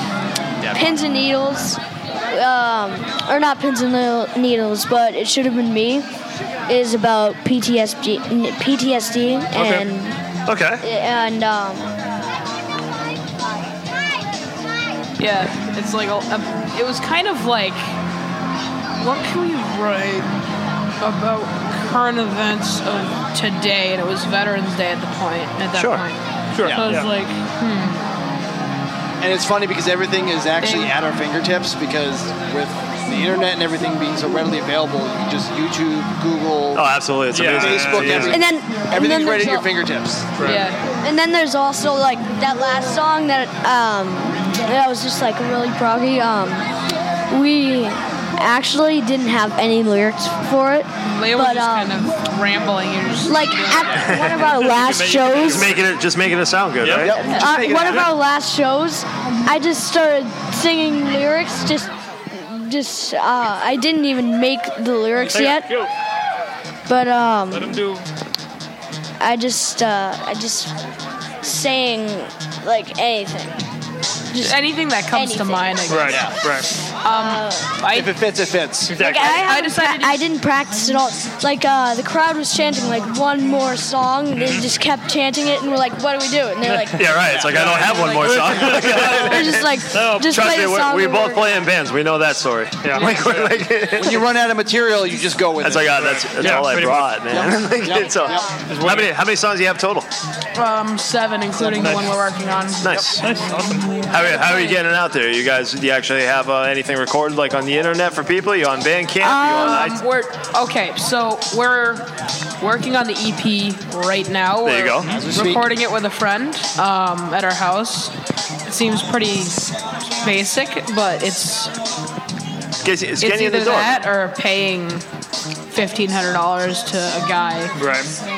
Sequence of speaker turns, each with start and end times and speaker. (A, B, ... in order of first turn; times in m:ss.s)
0:00.6-0:00.9 A
0:00.7-0:06.0 B
0:06.7-0:10.2 B
0:09.5-0:09.9 C
0:10.5-0:10.8 C
0:10.8-0:11.9 B
0:15.2-0:17.9 D
0:19.0-0:20.3 D
0:21.0-0:28.1 D
0:25.7-0:26.0 C
0:26.5-0:27.1 E
0:29.2-0:40.4 A
0:30.6-0:30.9 D
0:36.7-0:38.4 C
0:37.3-0:38.4 E
0:38.3-0:39.7 B
0:40.4-0:40.7 E
0:40.4-0:40.8 D
0:41.0-0:46.7 B
0:47.3-0:51.9 B
0:51.0-0:53.9 D
0:53.2-0:55.7 B
0:54.1-0:55.9 E
0:55.4-0:57.3 C
0:56.8-0:57.2 E
0:57.0-0:58.1 A
0:57.1-1:05.7 B
1:05.2-1:05.9 E
1:06.9-1:07.8 B
1:07.5-1:08.0 E
1:09.2-1:10.7 B
1:11.4-1:13.6 B
1:14.3-1:15.8 B
1:14.4-1:16.3 D
1:15.9-1:16.7 E
1:16.1-1:16.4 A
1:17.0-1:18.1 D
1:17.1-1:17.7 B
1:17.9-1:19.0 A
1:18.9-1:19.4 E
1:19.0-1:20.2 D
1:19.0-1:27.0 B
1:24.3-1:24.7 E
1:26.6-1:26.9 E
1:26.9-1:34.2 C
1:27.1-1:29.2 A
1:27.5-1:30.4 E
1:29.2-1:31.6 B
1:32.8-1:33.6 E
1:33.9-1:36.7 A
1:35.6-1:40.1 C
1:35.9-1:37.4 E
1:37.3-1:38.5 A
1:38.7-1:39.1 E
1:40.6-1:43.0 D
1:41.7-1:42.1 E
1:42.8-1:43.2 C
1:43.2-1:44.6 E
1:44.1-1:50.0 C
1:44.3-1:44.8 D
1:49.2-1:49.9 B
1:49.6-1:52.1 D
1:52.6-1:58.1 D
1:54.6-1:55.1 C
1:55.1-1:55.7 A
1:58.6-1:59.7 D
2:00.2-2:01.7 D
2:02.8-2:04.0 C
2:03.2-2:05.0 D
2:05.7-2:07.7 D
2:07.7-2:08.1 E